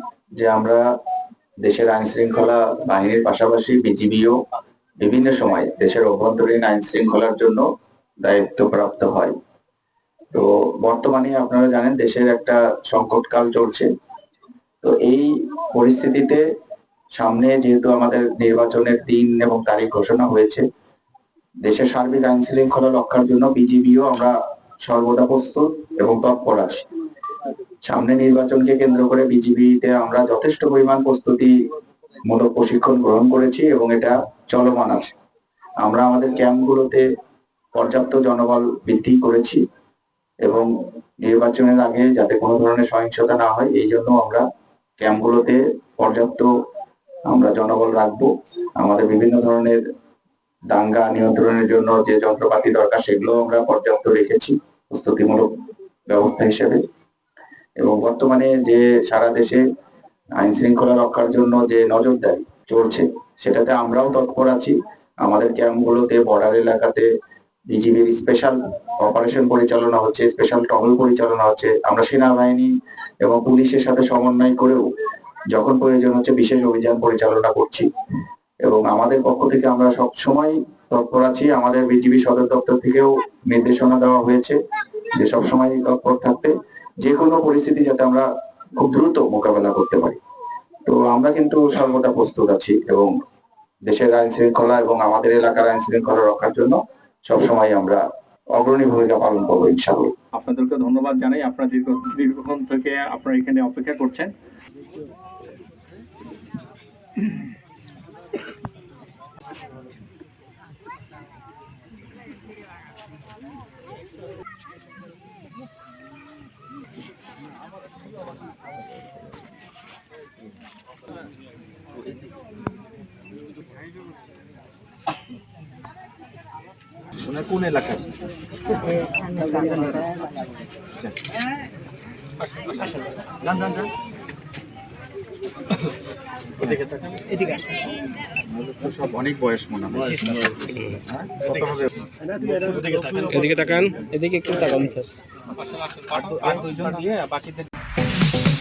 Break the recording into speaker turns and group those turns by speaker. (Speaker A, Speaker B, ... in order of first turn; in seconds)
Speaker A: 0.4-0.8, 1.6-4.4, 5.0-7.6, 8.2-9.3, 10.3-13.9, 14.8-16.4, 17.2-20.6, 21.6-26.8, 27.9-31.5, 32.2-35.1, 35.8-37.0, 37.7-39.6, 41.2-44.4, 45.0-46.5, 47.3-49.8, 50.7-55.5, 56.1-56.8, 57.8-59.6, 60.4-67.1, 67.7-72.7, 73.2-74.8, 75.5-77.9, 78.6-84.6, 85.1-90.2, 90.8-93.1, 93.9-98.0, 98.5-100.1
Speaker B: 100.4-104.3
Speaker C: 127.2-128.1, 136.6-137.5, 138.4-141.9, 142.4-144.0, 145.9-147.7
Speaker D: 140.8-141.0, 143.3-145.1